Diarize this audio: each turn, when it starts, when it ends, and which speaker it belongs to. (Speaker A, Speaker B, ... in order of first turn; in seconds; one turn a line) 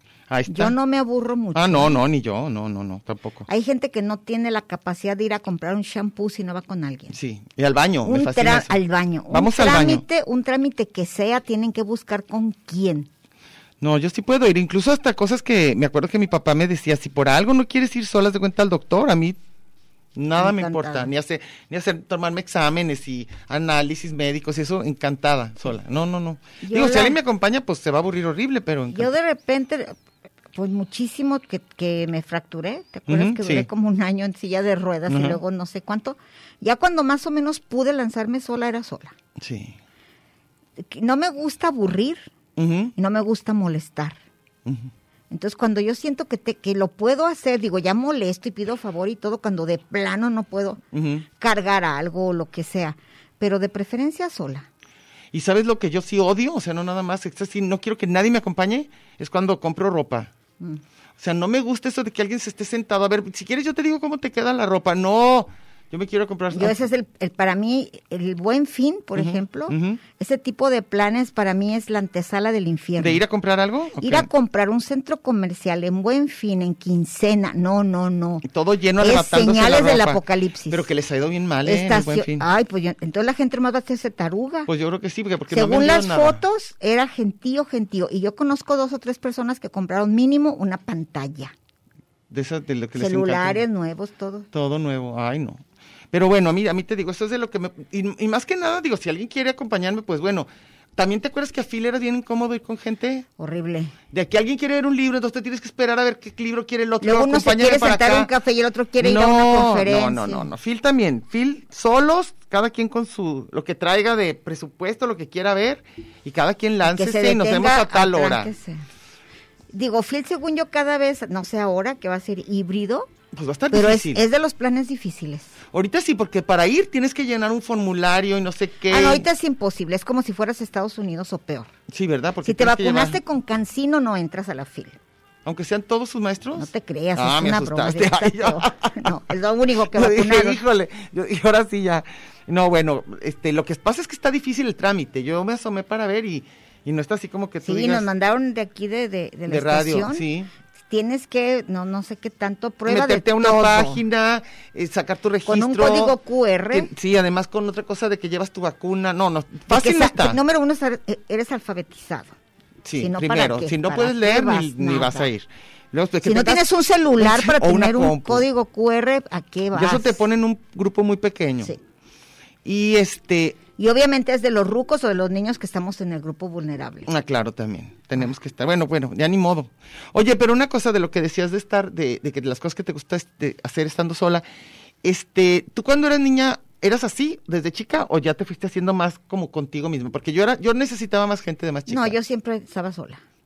Speaker A: 0.3-0.7
Speaker B: 0.5-1.9
Speaker A: 1.5-3.5
Speaker B: 3.5-7.1
Speaker A: 7.1-8.8
Speaker B: 8.0-13.1
Speaker A: 9.3-10.0
Speaker A: 13.8-19.4
Speaker A: 20.1-29.1
Speaker B: 20.4-21.1
Speaker B: 26.6-27.2
Speaker B: 28.9-29.9
Speaker B: 30.5-39.1
Speaker A: 33.1-33.7
Speaker A: 35.1-35.4
Speaker A: 39.4-39.8
Speaker B: 40.8-42.3
Speaker A: 42.6-42.9
Speaker B: 43.0-44.2
Speaker A: 44.6-44.9
Speaker B: 45.3-50.8
Speaker A: 50.9-51.2
Speaker B: 51.4-54.7
Speaker A: 55.3-60.3
Speaker A: 61.2-66.8
Speaker B: 66.5-73.2
Speaker A: 69.2-70.0
Speaker A: 73.0-74.3
Speaker B: 74.0-78.4
Speaker A: 78.4-82.5
Speaker B: 79.0-80.9
Speaker B: 81.6-84.7
Speaker A: 84.7-86.4
Speaker B: 85.5-91.5
Speaker A: 92.3-93.6
Speaker B: 93.0-94.5
Speaker A: 94.5-103.3
Speaker B: 103.4-103.9
Speaker A: 104.1-108.3
Speaker B: 107.0-110.5
Speaker A: 109.0-118.5
Speaker B: 116.8-118.8
Speaker B: 119.7-123.1
Speaker A: 123.3-124.2
Speaker B: 123.7-125.5
Speaker A: 125.7-129.3
Speaker B: 128.9-131.7
Speaker A: 131.9-133.2
Speaker B: 132.4-135.0
Speaker A: 135.4-139.2
Speaker B: 136.6-140.6
Speaker A: 139.9-148.1
Speaker B: 147.6-150.2
Speaker A: 149.5-150.5
Speaker B: 150.9-154.0
Speaker A: 152.9-156.2
Speaker B: 155.4-156.9
Speaker A: 156.7-160.4
Speaker B: 159.7-162.3
Speaker A: 162.8-168.4
Speaker B: 162.9-165.3
Speaker B: 166.2-170.2
Speaker A: 169.7-171.7
Speaker A: 172.6-173.6
Speaker B: 173.8-177.1
Speaker A: 177.1-184.4
Speaker A: 185.0-192.2
Speaker B: 191.9-193.2